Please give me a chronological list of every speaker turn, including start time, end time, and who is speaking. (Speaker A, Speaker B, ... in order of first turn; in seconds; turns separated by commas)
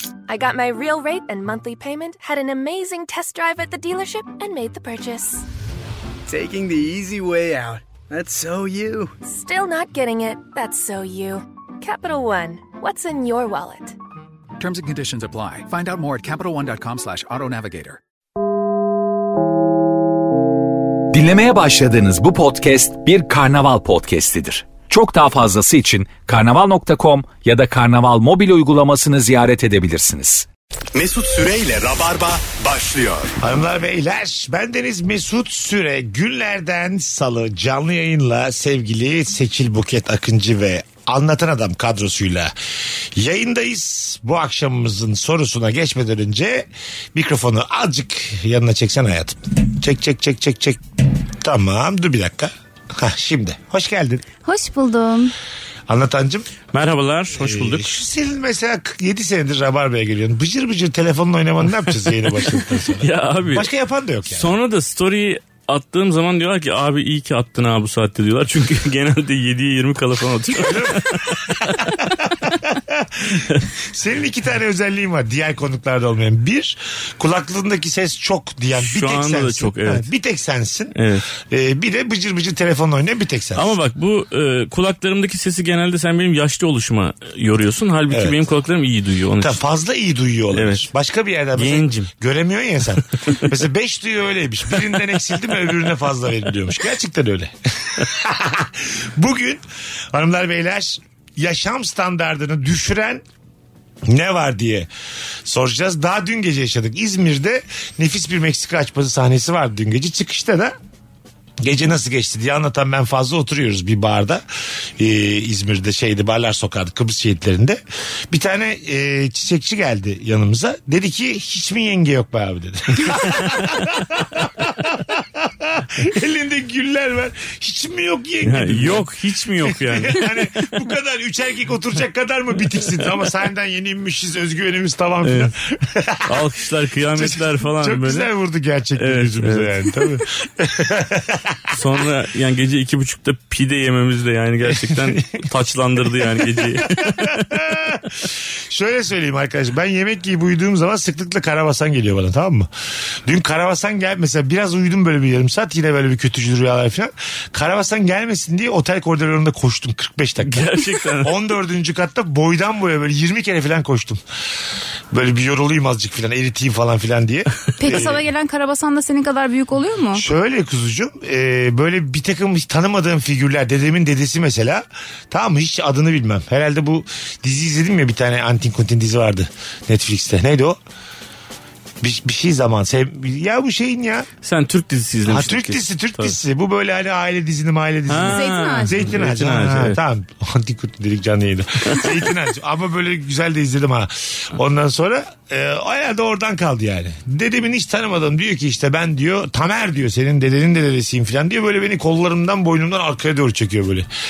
Speaker A: 0.3-5.4, Speaker B: 6.3-9.2, Speaker A: 9.2-14.0, Speaker C: 14.6-18.0, Speaker D: 21.1-30.5, Speaker E: 30.9-33.3, Speaker F: 33.4-42.5, Speaker F: 43.1-50.8, Speaker F: 51.4-54.2, Speaker G: 54.5-55.3, Speaker F: 55.9-56.5, Speaker H: 56.7-57.9, Speaker F: 57.3-64.5, Speaker H: 62.9-63.7, Speaker H: 64.3-71.9, Speaker F: 70.6-83.8, Speaker H: 78.8-80.1, Speaker H: 81.0-81.3, Speaker H: 83.5-89.6, Speaker F: 88.1-88.4, Speaker F: 89.4-103.2, Speaker H: 90.5-90.9, Speaker H: 91.6-92.1, Speaker F: 104.1-104.9, Speaker F: 105.5-110.7, Speaker F: 111.6-114.4, Speaker F: 115.0-117.8, Speaker F: 118.3-129.1, Speaker H: 128.4-130.3, Speaker F: 129.7-136.3, Speaker H: 135.2-135.5, Speaker H: 136.3-138.3, Speaker F: 137.2-141.6, Speaker H: 139.0-139.7, Speaker H: 141.7-147.5, Speaker F: 144.7-145.2, Speaker F: 146.3-152.7, Speaker F: 153.2-164.2, Speaker H: 160.4-161.3, Speaker F: 165.1-168.2, Speaker G: 167.8-170.2, Speaker F: 170.1-180.8, Speaker F: 182.0-184.3, Speaker H: 184.4-186.4, Speaker F: 185.2-204.1, Speaker H: 188.1-190.0, Speaker G: 188.3-188.9